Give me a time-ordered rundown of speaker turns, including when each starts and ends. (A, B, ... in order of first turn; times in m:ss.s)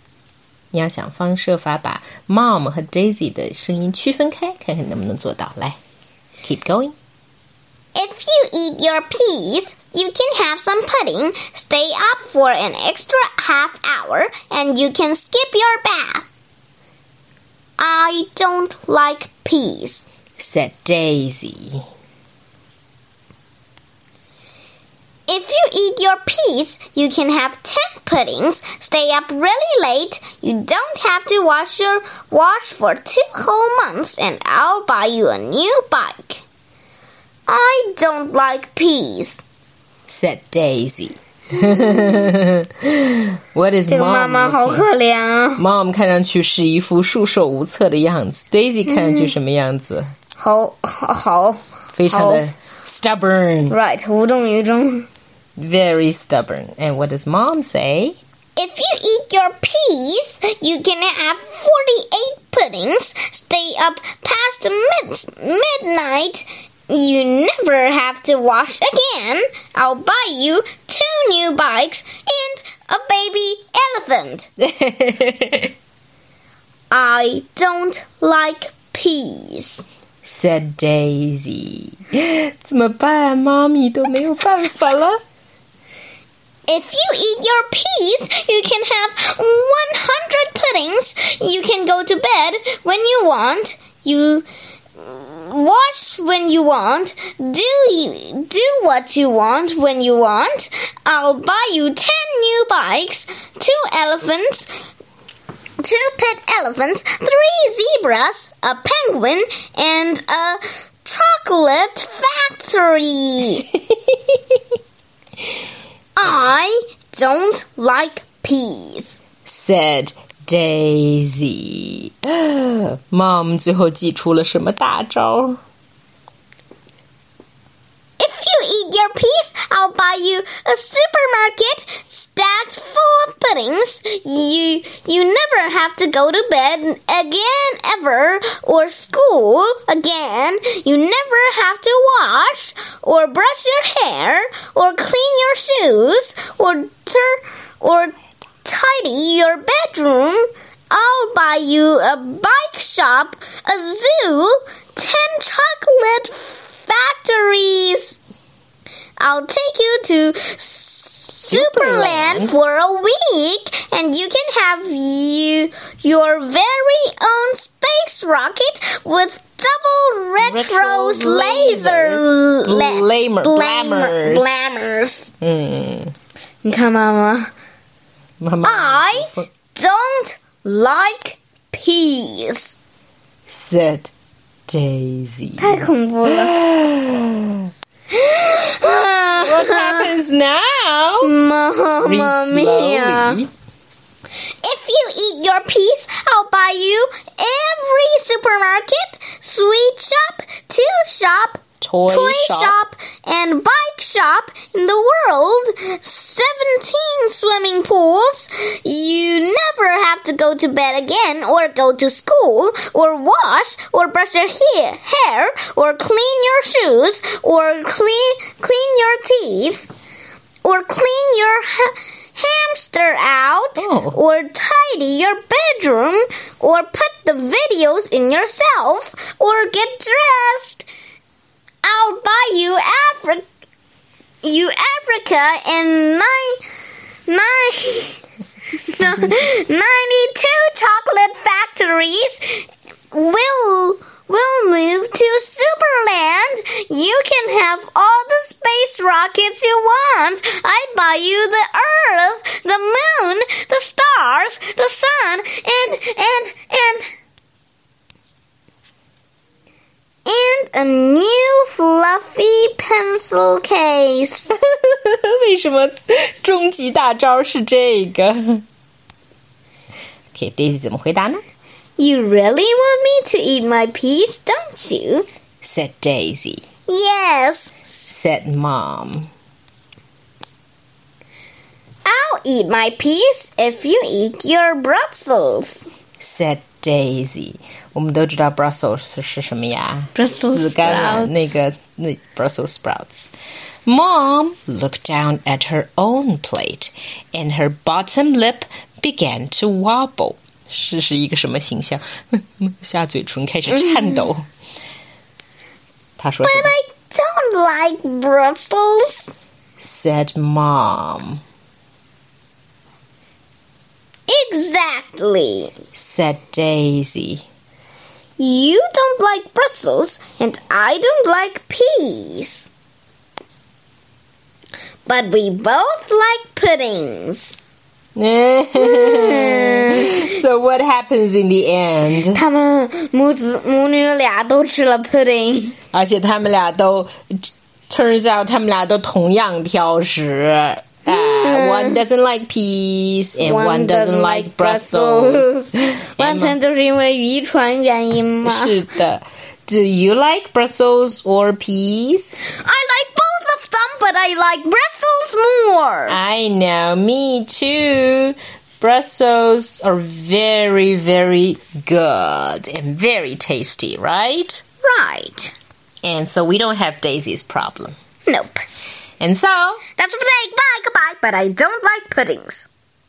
0:00.7-0:05.8 A
0:06.4-0:07.0 A
0:07.9-0:16.3 B
0:17.8-0:20.0 B
0:20.4-0:21.8 A
0:25.3-0:36.4 B
0:37.5-0:39.4 B
0:40.1-0:44.8 A
0:41.7-0:42.0 B
0:43.9-0:45.6 B
0:45.6-0:50.1 A
0:48.9-0:49.3 B
0:50.4-0:52.5 B
0:51.9-0:53.8 A
0:53.7-0:55.1 B
0:55.6-0:58.2 A
0:58.6-1:14.5 B
1:14.6-1:15.7 A
1:16.9-1:19.8 B
1:20.2-1:25.2 A
1:26.7-1:34.4 B
1:35.0-1:44.7 B
1:45.8-1:53.7 B
1:54.1-1:54.4 A
1:56.2-1:59.2 B
1:59.4-2:05.6 A
2:08.2-2:38.2 B
2:39.2-2:55.3 B
2:41.5-2:42.5 A
2:50.4-2:54.5 A
2:55.4-2:56.1 A
2:56.6-2:57.5 B
2:58.4-2:59.5 A
2:58.6-3:02.8 B
3:03.5-3:04.1 A
3:04.7-3:05.8 A
3:05.6-3:06.5 B
3:06.4-3:07.7 A
3:08.1-3:10.1 B
3:09.4-3:11.3 A
3:11.2-3:13.4 B
3:12.0-3:13.5 A
3:14.6-3:39.9 B
3:21.8-3:22.8 A
3:40.6-3:50.8 B
3:43.8-3:44.2 A
3:51.8-3:53.4 B
3:54.4-3:56.6 B
3:57.3-3:58.2 B
3:58.8-4:17.0 B
4:20.2-4:24.6 B
4:24.8-4:28.6 A
4:30.3-4:31.4 A
4:32.0-4:35.2 B
4:35.6-4:36.6 A
4:36.9-4:37.9 B
4:38.0-4:39.3 A
4:42.0-4:45.9 B
4:46.2-4:53.3 A
4:50.1-4:51.6 B
4:53.8-5:04.5 A
5:03.7-5:04.2 B
5:06.2-5:06.7 A
5:06.4-5:09.3 B
5:09.8-5:11.4 A
5:14.3-5:15.7 B
5:15.9-5:17.4 A
5:18.4-5:22.7 B
5:25.0-5:27.6 B
5:28.2-5:32.4 A
5:28.8-5:30.2 B
5:32.3-5:35.8 B
5:35.9-5:46.6 A
5:41.1-5:42.0 B
5:43.4-5:48.8 B
5:48.4-5:52.4 A
5:52.4-5:56.2 B
5:56.1-6:04.6 A
6:04.8-6:05.5 B
6:06.0-6:07.9 A
6:08.3-6:08.6 B
6:09.2-6:09.8 A
6:10.0-6:12.7 B